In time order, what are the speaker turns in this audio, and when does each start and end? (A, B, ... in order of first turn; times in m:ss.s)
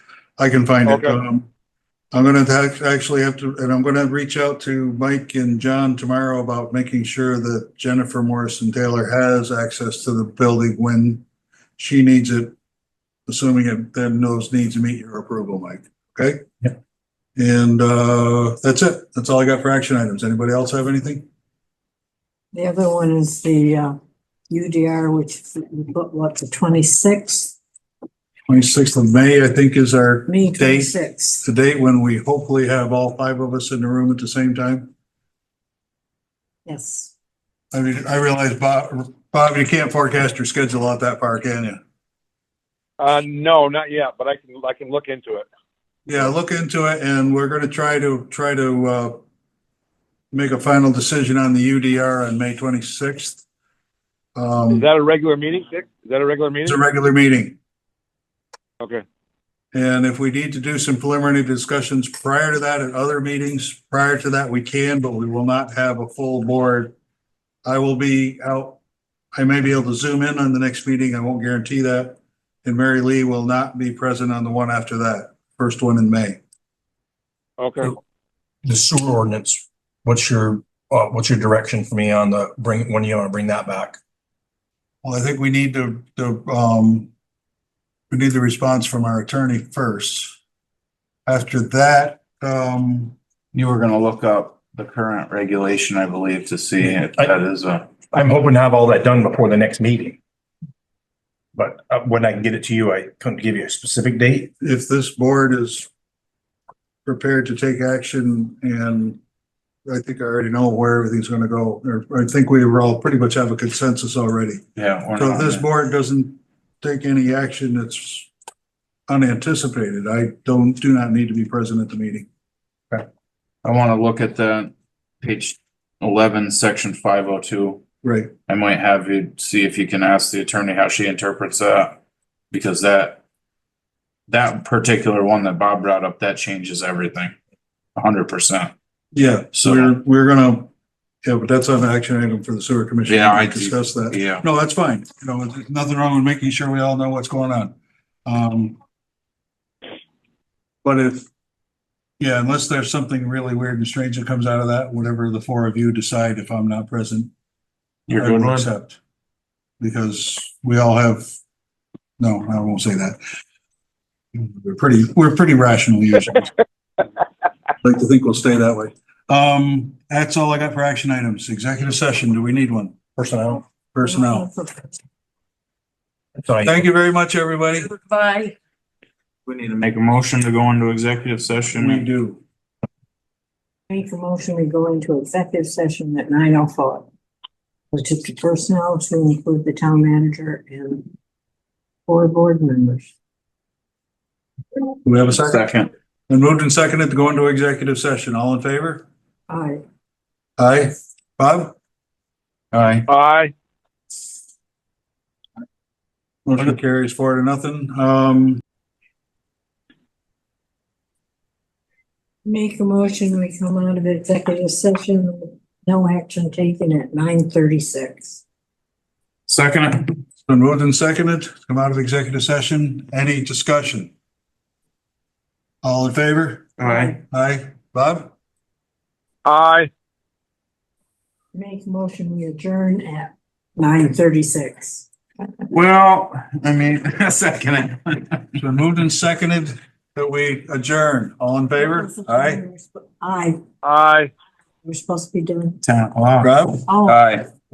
0:00.4-0:01.5 A
0:00.9-0:01.2 B
0:02.1-0:11.2 A
0:11.8-0:12.5 A
0:13.3-0:16.5 A
0:17.4-0:21.2 A
0:22.5-0:24.0 C
0:24.5-0:27.6 C
0:28.5-0:34.9 A
0:30.3-0:31.4 C
0:36.7-0:37.1 C
0:37.7-0:41.8 A
0:43.0-0:45.5 B
0:46.1-0:49.2 A
0:50.3-0:53.4 A
0:54.4-0:54.9 A
0:54.7-0:56.8 B
0:56.7-0:57.6 A
0:59.7-1:07.0 A
1:07.6-1:08.8 A
1:09.3-1:16.4 A
1:17.6-1:18.0 B
1:18.6-1:24.0 D
1:25.0-1:27.1 A
1:28.1-1:30.4 A
1:31.3-1:33.2 A
1:33.5-1:37.9 E
1:36.8-1:37.3 D
1:38.1-1:40.2 D
1:41.6-1:44.5 D
1:44.6-1:45.9 A
1:47.1-1:49.2 A
1:49.9-1:54.6 A
1:54.8-1:55.7 E
1:55.2-1:58.3 A
1:59.1-2:02.3 A
2:03.6-2:07.8 E
2:08.0-2:08.3 A
2:08.5-2:12.0 E
2:12.5-2:13.2 E
2:14.3-2:17.4 E
2:18.0-2:18.7 E
2:19.1-2:20.7 A
2:19.5-2:19.9 E
2:21.2-2:27.7 A
2:23.0-2:24.4 E
2:28.3-2:28.8 A
2:30.8-2:31.3 A
2:32.2-2:37.3 A
2:38.1-2:38.7 E
2:38.1-2:39.0 A
2:39.8-2:41.3 A
2:42.2-2:43.2 A
2:44.4-2:46.5 A
2:47.8-2:53.2 A
2:53.2-2:53.6 D
2:53.9-2:54.5 A
2:54.0-2:55.0 C
2:56.4-2:56.8 D
2:56.6-2:58.0 A
2:59.5-3:02.1 E
3:01.8-3:02.4 A
3:03.9-3:07.1 C
3:07.9-3:11.1 C
3:12.1-3:13.1 C
3:15.0-3:15.7 A
3:15.3-3:15.9 E
3:16.3-3:19.1 A
3:19.5-3:19.8 C
3:20.6-3:21.7 A
3:22.7-3:23.1 E
3:23.1-3:23.5 B
3:26.5-3:28.6 A
3:32.4-3:38.4 C
3:39.5-3:40.1 E
3:40.4-3:44.1 A
3:45.8-3:46.7 A
3:46.8-3:47.2 E
3:46.8-3:47.2 C
3:47.3-3:48.3 A
3:49.4-3:49.9 B
3:51.5-3:55.1 C
3:55.7-3:58.5 E
3:58.6-4:02.6 A
4:01.8-4:03.6 C
4:03.8-4:04.3 B
4:04.8-4:05.8 C
4:05.8-4:07.5 E
4:06.4-4:06.8 A
4:06.9-4:07.2 C